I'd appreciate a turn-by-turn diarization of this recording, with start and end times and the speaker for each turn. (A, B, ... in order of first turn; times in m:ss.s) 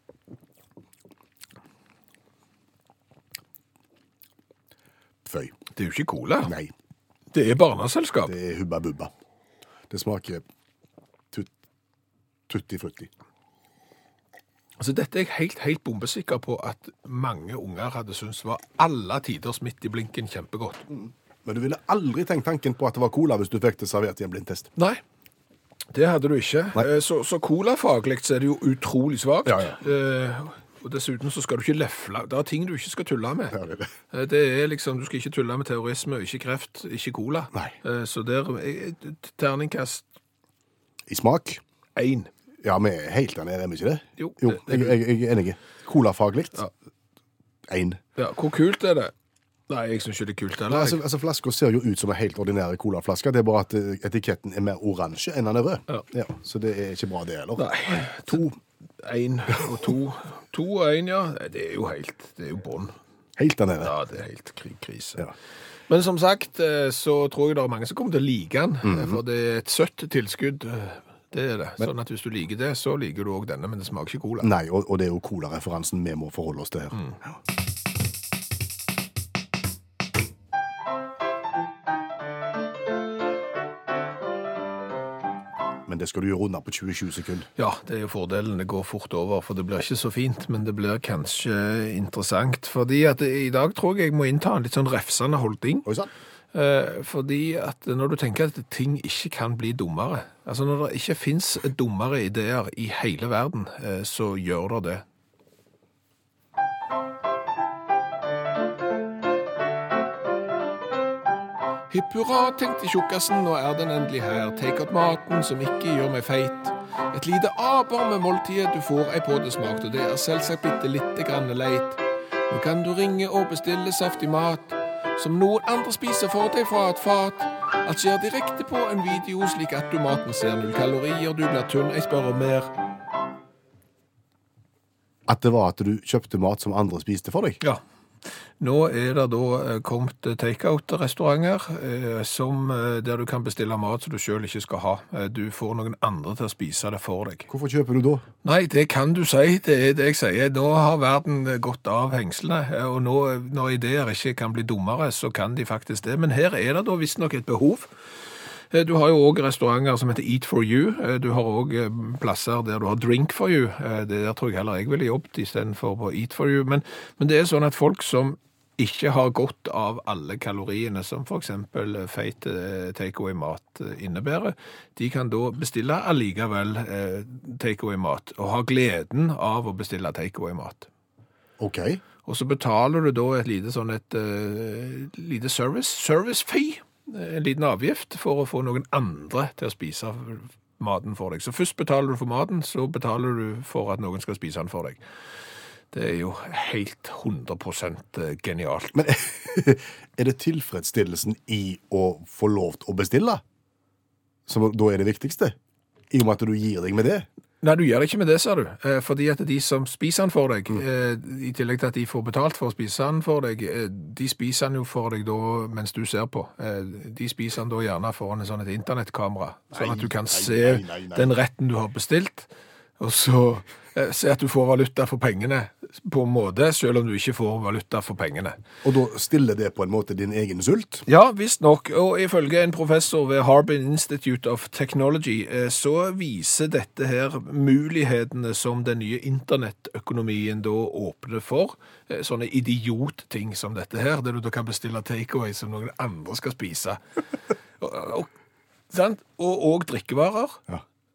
0:05.2-0:05.5 A
0:05.7-0:06.5 B
0:06.4-0:06.7 A
0:07.3-0:08.3 B
0:08.2-0:09.1 A
0:09.9-0:10.4 A
0:12.5-0:13.1 A
0:14.8-0:20.8 B
0:20.9-0:24.7 A
0:25.9-0:33.6 B
0:29.4-0:29.8 A
0:33.5-0:33.9 A
0:34.1-0:40.0 B
0:41.1-0:41.6 A
0:42.0-0:42.3 B
0:42.6-0:46.6 A
0:44.2-0:45.0 B
0:47.7-0:48.0 A
0:48.2-0:49.1 B
0:49.7-0:51.0 B
0:50.7-0:58.5 A
0:57.6-1:02.9 B
1:03.4-1:03.9 A
1:03.8-1:05.3 B
1:05.9-1:14.5 B
1:08.8-1:09.2 A
1:14.4-1:17.0 A
1:25.8-1:27.5 A
1:27.6-1:35.9 B
1:35.8-1:36.1 A
1:36.5-1:45.0 B
1:51.9-2:12.7 B
2:15.3-2:17.6 A
2:18.6-2:27.5 B
2:27.5-2:28.2 A
2:28.4-2:37.9 B
2:38.7-3:00.9 B
3:01.6-3:02.0 A
3:02.2-3:15.0 B
3:15.9-3:19.0 B
3:18.9-3:23.4 A
3:24.5-3:25.6 A
3:26.1-3:27.3 A
3:27.6-3:48.6 B
3:39.7-3:41.4 A
3:48.8-3:51.0 A
3:51.1-4:07.0 B
4:07.8-4:08.3 B
4:08.9-4:10.6 B